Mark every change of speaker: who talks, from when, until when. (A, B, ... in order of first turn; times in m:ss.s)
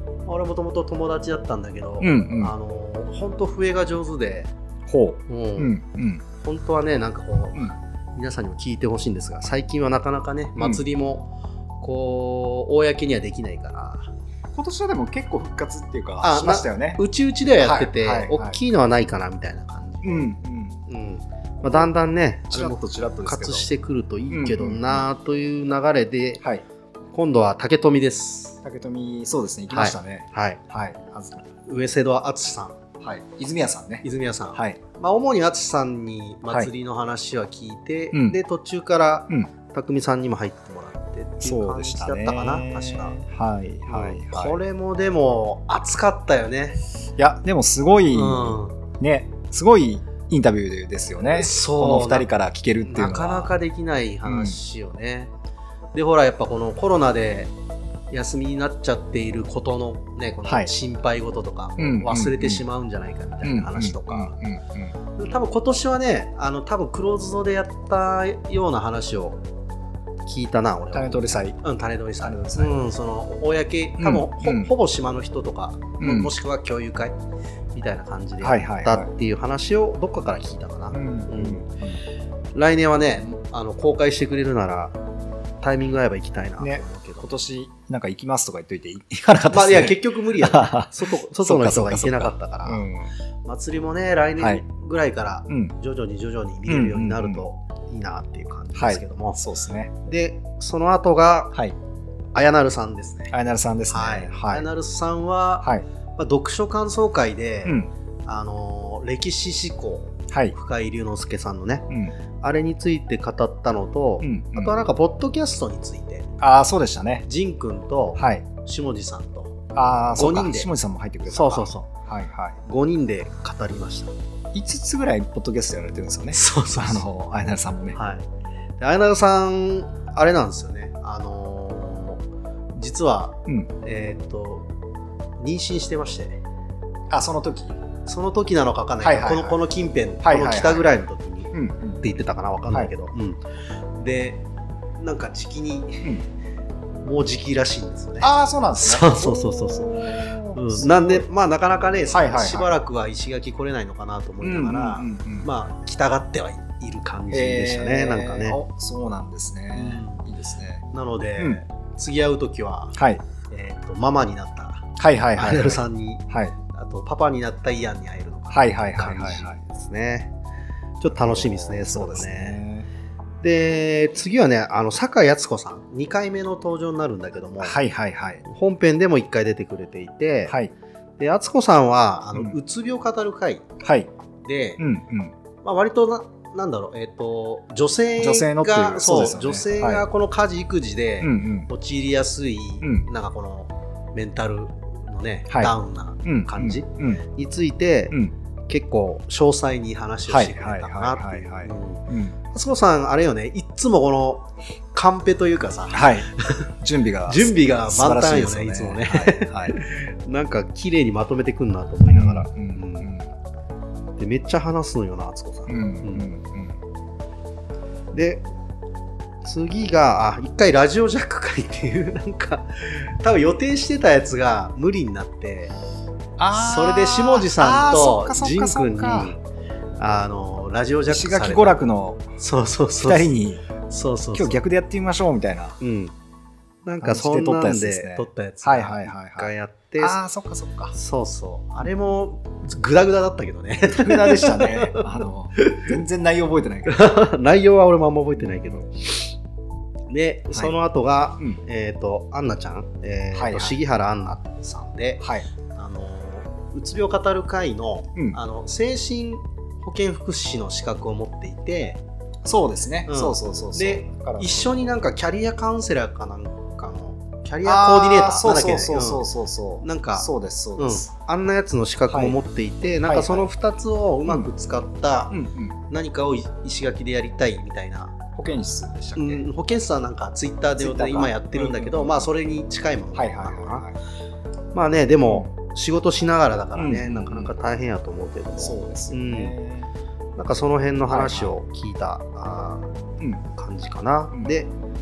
0:00.2-0:04.5 A
0:02.0-0:02.5 B
0:04.9-0:06.2 B
0:05.3-0:05.7 A
0:06.4-0:14.1 A
0:14.5-0:17.0 B
0:16.2-0:20.3 A
0:17.6-0:18.6 B
0:20.0-0:20.8 B
0:20.9-0:26.4 A
0:21.6-0:21.9 B
0:22.5-0:23.7 B
0:24.3-0:25.0 B
0:27.1-0:28.6 A
0:28.6-0:31.4 B
0:29.7-0:30.6 A
0:31.7-0:32.8 A
0:33.0-0:34.8 B
0:34.0-0:43.2 A
0:38.1-0:38.4 B
0:41.4-0:44.6 B
0:43.9-0:46.8 A
0:47.2-0:53.5 B
0:48.1-0:48.8 A
0:51.3-0:52.3 A
0:52.8-0:55.3 A
0:54.2-0:54.6 B
0:55.9-0:57.5 A
0:58.1-1:04.3 A
1:01.8-1:02.6 B
1:03.4-1:04.9 B
1:05.2-1:09.4 A
1:10.2-1:17.2 A
1:10.9-1:11.6 B
1:12.2-1:12.7 B
1:14.0-1:14.7 B
1:16.0-1:16.3 B
1:17.7-1:21.6 A
1:18.4-1:19.1 B
1:20.9-1:22.0 B
1:22.5-1:24.9 A
1:25.6-1:27.3 A
1:26.6-1:33.1 B
1:29.5-1:32.8 A
1:33.4-1:39.4 A
1:35.5-1:35.7 B
1:36.7-1:37.4 B
1:38.7-1:39.9 B
1:40.0-1:41.5 A
1:42.3-1:43.3 A
1:43.3-1:44.7 B
1:43.9-1:51.9 A
1:47.6-1:47.9 B
1:50.3-1:50.5 B
1:52.4-1:56.3 A
1:54.2-1:54.8 B
1:56.4-1:57.2 B
1:57.2-2:00.7 A
1:58.2-1:58.4 B
1:59.7-2:02.6 B
2:01.3-2:01.9 A
2:02.6-2:04.1 A
2:04.5-2:08.0 B
2:06.3-2:07.0 A
2:07.9-2:08.2 A
2:08.8-2:12.2 A
2:12.7-2:14.7 A
2:15.4-2:16.4 A
2:17.1-2:17.8 B
2:18.0-2:23.4 A
2:19.0-2:19.6 B
2:20.2-2:20.9 B
2:21.5-2:22.0 B
2:24.0-2:24.4 A
2:25.0-2:26.1 A
2:27.0-2:38.6 A
2:28.2-2:31.2 B
2:32.1-2:32.7 B
2:34.4-2:35.5 B
2:37.3-2:40.8 B
2:39.7-2:40.2 A
2:40.9-2:43.0 A
2:42.9-2:43.2 B
2:43.5-2:50.3 A
2:45.0-2:46.5 B
2:48.5-2:49.6 B
2:51.0-2:52.6 A
2:51.1-2:52.9 B
2:53.4-2:57.8 A
2:57.6-2:58.4 B
2:58.4-3:00.5 A
3:00.5-3:00.7 B
3:01.2-3:03.6 A
3:03.8-3:04.1 B
3:04.4-3:04.8 A
3:04.8-3:05.3 B
3:05.6-3:18.1 A
3:08.2-3:10.0 B
3:11.2-3:11.7 B
3:15.5-3:15.7 B
3:16.2-3:17.2 B
3:18.7-3:26.7 A
3:20.3-3:22.4 B
3:25.9-3:26.3 B
3:26.8-3:29.8 B
3:27.3-3:33.1 A
3:32.1-3:33.3 B
3:34.2-3:36.3 A
3:35.7-3:36.7 B
3:38.1-3:38.4 A
3:39.4-3:45.7 A
3:46.4-3:49.3 B
3:46.5-3:49.4 A
3:50.0-3:51.8 A
3:51.1-3:52.3 B
3:52.4-3:53.3 A
3:53.0-3:53.6 B
3:53.9-3:54.6 A
3:54.3-3:55.8 B
3:55.8-3:56.1 A
3:56.8-4:00.2 A
3:57.0-4:00.9 B
4:00.9-4:05.0 A
4:03.9-4:07.1 B
4:05.6-4:05.9 A
4:06.8-4:09.3 A
4:08.4-4:08.8 B
4:10.1-4:15.2 A
4:13.3-4:13.8 B
4:15.2-4:15.4 B
4:15.7-4:22.0 A
4:22.4-4:24.8 B
4:23.1-4:29.2 A
4:27.6-4:31.1 B
4:29.8-4:35.4 A
4:32.1-4:32.4 B
4:33.0-4:33.5 B
4:35.3-4:35.8 B
4:35.9-4:38.2 A
4:38.3-4:39.4 B
4:39.2-4:43.8 A
4:40.8-4:42.3 B
4:43.1-4:44.0 B
4:44.7-4:49.5 A
4:46.8-4:47.5 B
4:48.6-4:49.9 B
4:50.4-4:52.9 A
4:51.1-4:51.5 B
4:53.5-4:54.7 A